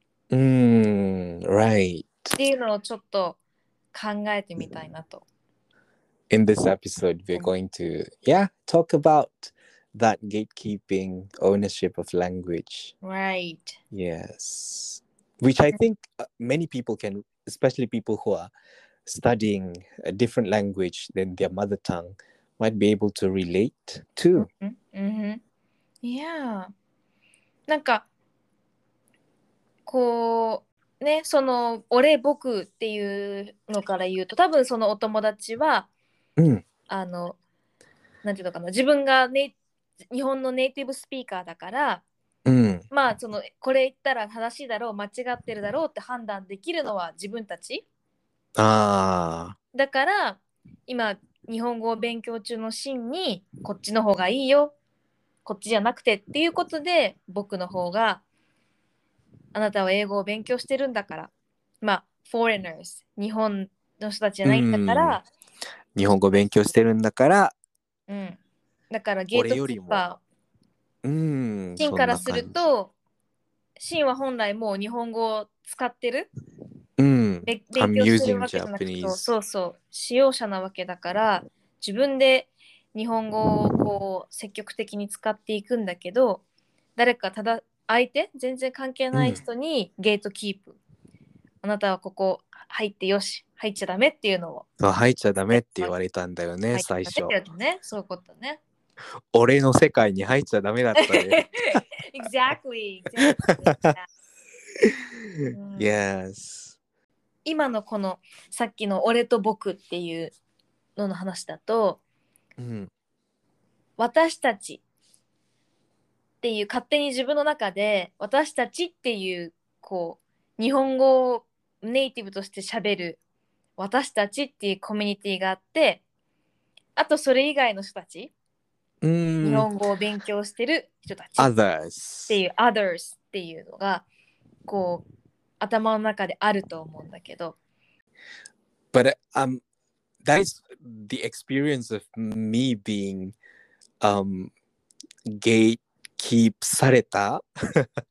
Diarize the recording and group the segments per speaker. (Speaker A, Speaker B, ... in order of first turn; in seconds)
Speaker A: 0.3-2.3, 6.3-12.9, 13.9-18.5, 19.1-24.5, 36.4-36.6, 42.5-42.9, 48.6-49.6, 64.5-65.2, 66.0-67.5, 69.3-70.0, 71.0-72.6, 77.0-79.3, 89.1-89.4, 94.8-97.3, 99.3-101.8, 103.4-103.9, 105.7-106.8, 112.6-112.9, 129.0-129.7, 131.4-132.4, 138.9-139.6, 140.2-143.3, 144.0-144.5, 145.3-147.9
Speaker B: 2.4-3.4, 3.9-5.2, 13.0-13.8, 24.4-25.4, 26.0-26.7, 27.7-28.1, 29.9-35.9, 36.9-37.4, 38.2-39.5, 40.1-42.0, 42.9-47.9, 49.7-54.7, 55.5-58.2, 59.5-61.3, 61.8-65.3, 68.1-68.4, 68.9-70.2, 71.8-72.9, 73.8-76.3, 77.5-86.4, 87.0-90.8, 91.6-94.7, 95.5-95.9, 96.7-98.6, 101.0-104.1, 105.5-105.9, 107.5-110.3, 111.0-112.0, 114.0-114.8, 116.4-123.2, 123.8-126.0, 127.0-128.3, 129.4-131.5, 132.3-134.1, 134.7-135.1, 135.6-137.6